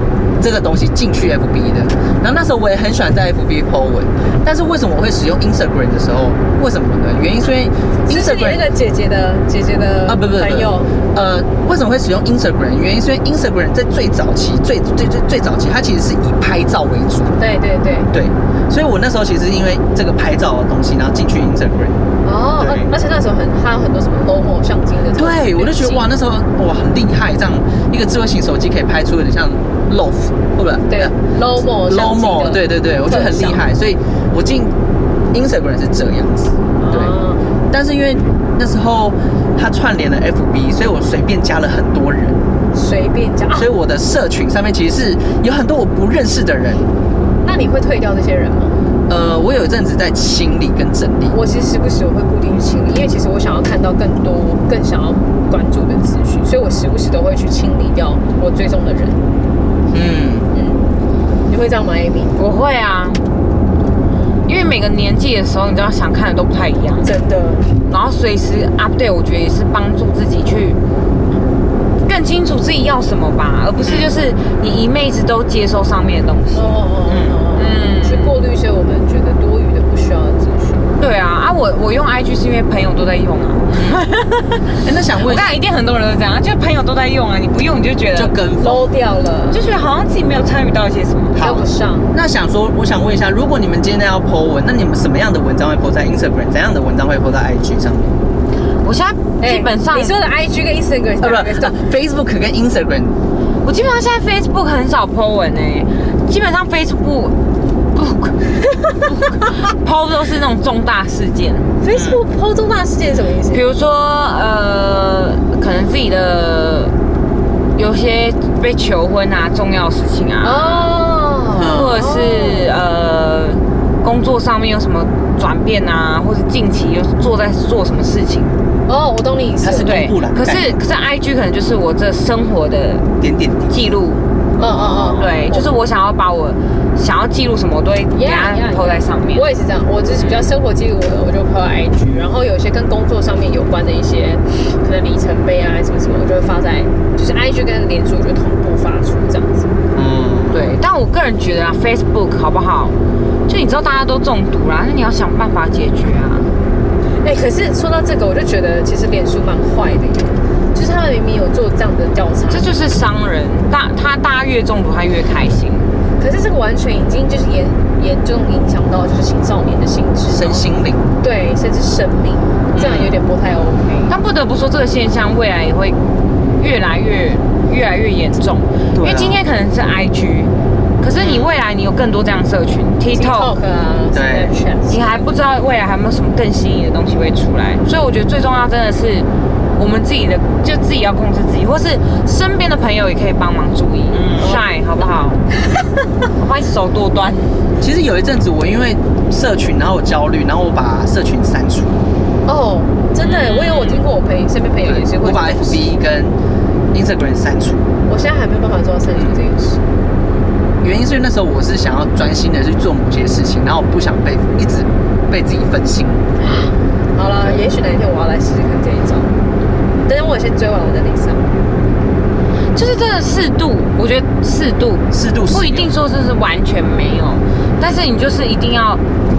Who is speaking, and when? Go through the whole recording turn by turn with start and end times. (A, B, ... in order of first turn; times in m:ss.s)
0:00.4-0:08.6 A
0:08.0-0:11.0 B
0:10.1-0:17.4 A
0:17.4-0:18.1 B
0:18.1-0:22.0 A
0:22.2-0:26.1 B
0:22.6-0:22.9 A
0:25.2-0:31.1 A
0:30.9-0:33.6 B
0:31.8-0:34.7 A
0:35.3-0:37.2 A
0:36.8-0:37.4 B
0:37.7-0:42.4 A
0:42.7-0:43.7 B
0:43.5-0:46.9 A
0:47.4-0:48.8 B
0:49.1-0:51.4 A
0:51.3-0:59.2 B
0:59.9-1:00.5 A
1:00.5-1:00.8 B
1:01.5-1:02.4 B
1:02.4-1:03.2 C
1:04.5-1:07.1 C
1:07.0-1:07.7 B
1:07.9-1:10.8 C
1:12.1-1:16.8 C
1:13.8-1:14.1 A
1:16.5-1:20.9 B
1:17.1-1:17.4 A
1:17.6-1:18.4 C
1:21.0-1:28.3 C
1:23.7-1:24.0 A
1:24.8-1:25.5 A
1:28.2-1:28.9 A
1:28.6-1:29.6 B
1:29.5-1:31.4 C
1:31.4-1:38.2 A
1:31.4-1:32.1 B
1:38.8-1:40.1 C
1:39.4-1:41.8 B
1:41.2-1:43.2 A
1:43.6-1:47.4 C
1:47.9-1:48.5 C
1:49.0-1:51.7 C
1:51.8-1:53.6 B
1:51.9-1:52.2 A
1:53.5-1:57.0 C
1:57.8-2:00.9 C
2:00.4-2:02.7 B
2:01.5-2:01.9 A
2:01.7-2:08.6 C
2:08.9-2:10.0 B
2:09.6-2:10.8 A
2:09.8-2:13.1 C
2:13.2-2:13.8 A
2:13.7-2:14.2 C
2:14.6-2:15.7 B
2:14.6-2:15.3 A
2:15.2-2:19.5 C
2:18.1-2:29.7 B
2:29.9-2:30.6 A
2:30.5-2:33.0 C
2:33.5-2:36.5 C
2:37.2-2:42.7 B
2:42.5-2:45.9 C
2:46.2-2:54.1 B
2:50.3-2:51.1 A
2:52.8-2:53.2 A
2:54.1-2:56.0 C
2:56.6-3:03.5 C
2:58.9-2:59.4 A
3:01.2-3:01.5 A
3:03.1-3:05.3 B
3:04.1-3:04.5 A
3:04.9-3:15.4 C
3:14.1-3:14.6 A
3:14.4-3:14.7 B
3:16.4-3:17.6 C
3:17.8-3:22.0 A
3:22.5-3:25.9 B
3:23.2-3:24.0 C
3:24.8-3:26.4 A
3:26.9-3:27.9 A
3:28.1-3:29.8 B
3:29.1-3:29.4 A
3:30.8-3:36.3 A
3:36.4-3:39.4 B
3:37.4-3:37.6 A
3:40.1-3:41.5 B
3:42.8-3:49.0 C
3:45.1-3:45.9 A